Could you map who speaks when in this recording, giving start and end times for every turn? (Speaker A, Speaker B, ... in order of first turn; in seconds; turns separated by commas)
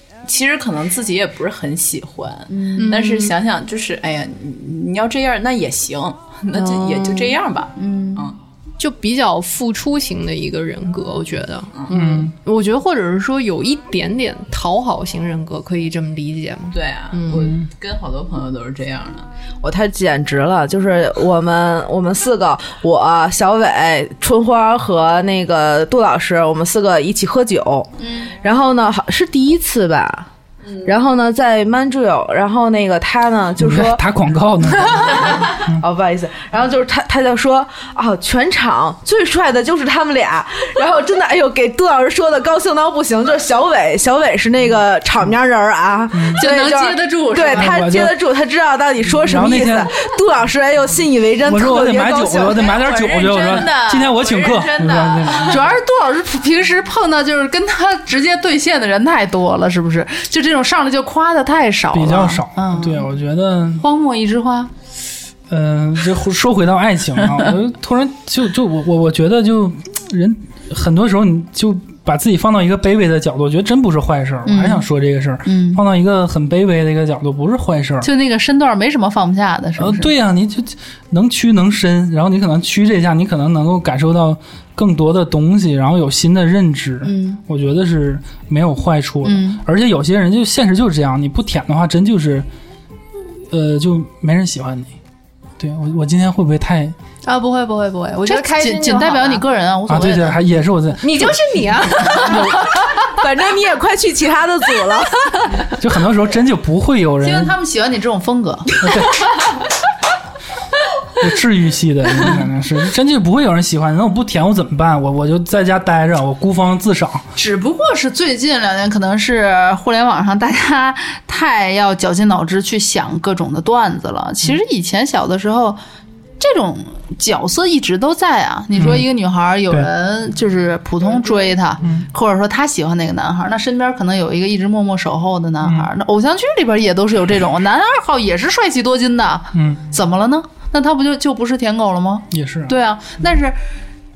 Speaker A: 0.2-8.4, Speaker B: 2.5-2.9, Speaker C: 2.8-3.3, Speaker C: 6.5-7.3, Speaker B: 7.8-8.3, Speaker C: 8.8-17.5, Speaker D: 11.9-12.3, Speaker A: 16.7-19.3, Speaker D: 17.3-17.7, Speaker E: 19.6-30.3, Speaker E: 30.8-34.0, Speaker D: 33.6-35.8, Speaker E: 34.9-52.7, Speaker D: 46.1-46.5, Speaker B: 46.4-47.9, Speaker D: 47.6-48.2, Speaker D: 49.1-49.9, Speaker D: 51.4-55.7, Speaker A: 52.5-55.6, Speaker B: 55.5-63.1, Speaker D: 61.9-63.9, Speaker B: 63.8-64.7, Speaker D: 65.5-78.1, Speaker B: 74.5-74.8, Speaker B: 75.5-75.8, Speaker B: 78.0-80.1, Speaker D: 79.8-92.5, Speaker B: 87.0-87.4, Speaker B: 89.2-89.6, Speaker D: 93.5-94.9, Speaker D: 95.6-97.0, Speaker C: 97.2-99.5, Speaker B: 98.3-100.5, Speaker D: 99.9-102.7, Speaker C: 101.0-103.0, Speaker E: 102.9-105.7, Speaker D: 105.8-107.5, Speaker B: 107.2-108.8, Speaker D: 108.8-109.2, Speaker D: 111.2-117.3, Speaker B: 117.4-125.8, Speaker B: 126.4-143.6, Speaker D: 128.8-129.1, Speaker D: 131.8-132.1, Speaker D: 135.6-135.9, Speaker D: 139.5-139.8, Speaker D: 142.3-142.8